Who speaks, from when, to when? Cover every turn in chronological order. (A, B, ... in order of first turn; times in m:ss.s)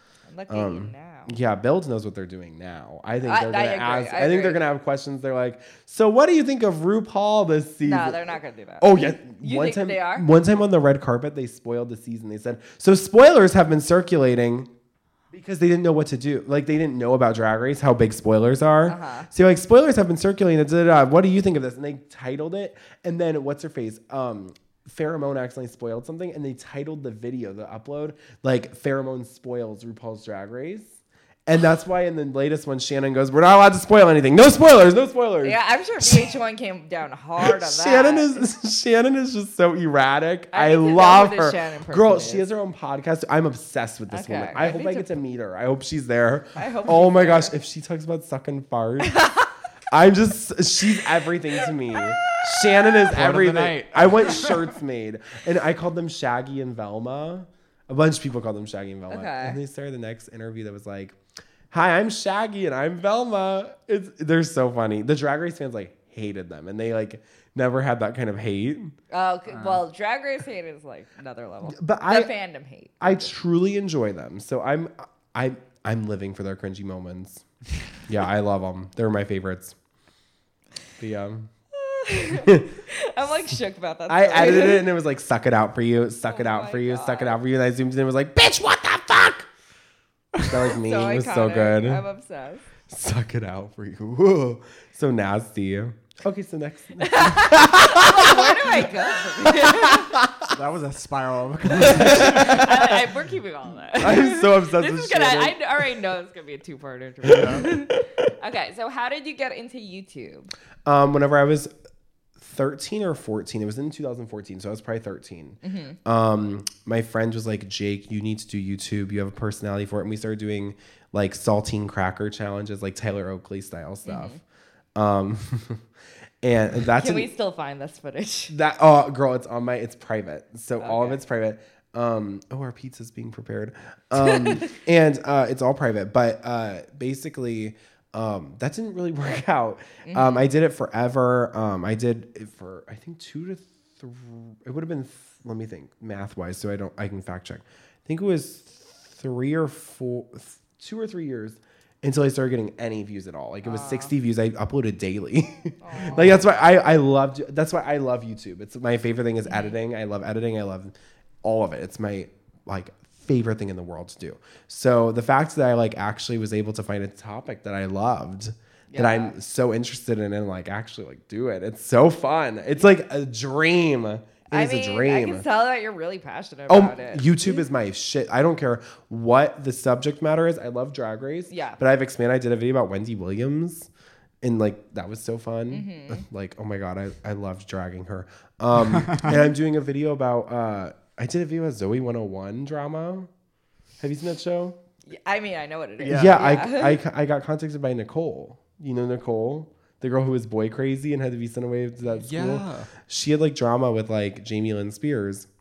0:00.3-0:01.3 A
0:00.5-0:14.7 B
0:03.2-0:04.6 A
0:07.8-0:10.3 A
0:15.3-0:30.9 B
0:18.9-0:19.3 A
0:31.5-0:36.3 B
0:35.4-0:38.5 A
0:37.4-0:49.2 B
0:40.5-0:42.5 A
0:44.1-0:45.2 A
0:46.6-0:47.5 A
0:49.0-0:49.5 A
0:49.9-1:01.2 B
0:53.0-0:54.8 C
0:59.1-0:59.6 A
1:01.7-1:08.9 B
1:09.1-1:13.3 A
1:11.6-1:12.3 B
1:13.0-1:17.4 B
1:18.1-1:19.8 B
1:21.0-1:21.5 B
1:21.7-1:24.9 A
1:22.3-1:22.7 B
1:24.1-1:29.5 B
1:26.3-1:27.4 A
1:30.4-1:32.0 B
1:30.7-1:32.6 A
1:32.9-1:40.5 B
1:37.0-1:40.2 A
1:40.4-1:42.8 C
1:41.7-1:42.8 B
1:41.8-1:50.5 A
1:44.0-1:45.9 B
1:47.3-1:48.2 B
1:47.3-1:47.7 C
1:50.9-1:51.7 B
1:52.4-2:04.4 B
1:55.6-1:56.0 A
2:04.0-2:04.4 A
2:05.0-2:05.8 B
2:06.4-2:07.3 B
2:06.9-2:08.5 A
2:08.5-2:55.4 B
2:10.8-2:11.2 A
2:14.2-2:14.7 A
2:20.0-2:20.5 A
2:33.6-2:34.1 A
2:35.8-2:36.4 A
2:39.5-2:39.8 A
2:48.9-2:49.4 A
2:54.5-2:57.7 A
2:56.7-3:03.9 B
3:01.5-3:01.8 A
3:04.4-3:13.3 B
3:05.7-3:06.2 A
3:14.0-3:14.8 B
3:15.1-3:17.0 A
3:16.0-3:16.4 C
3:16.1-3:25.5 B
3:22.2-3:22.9 C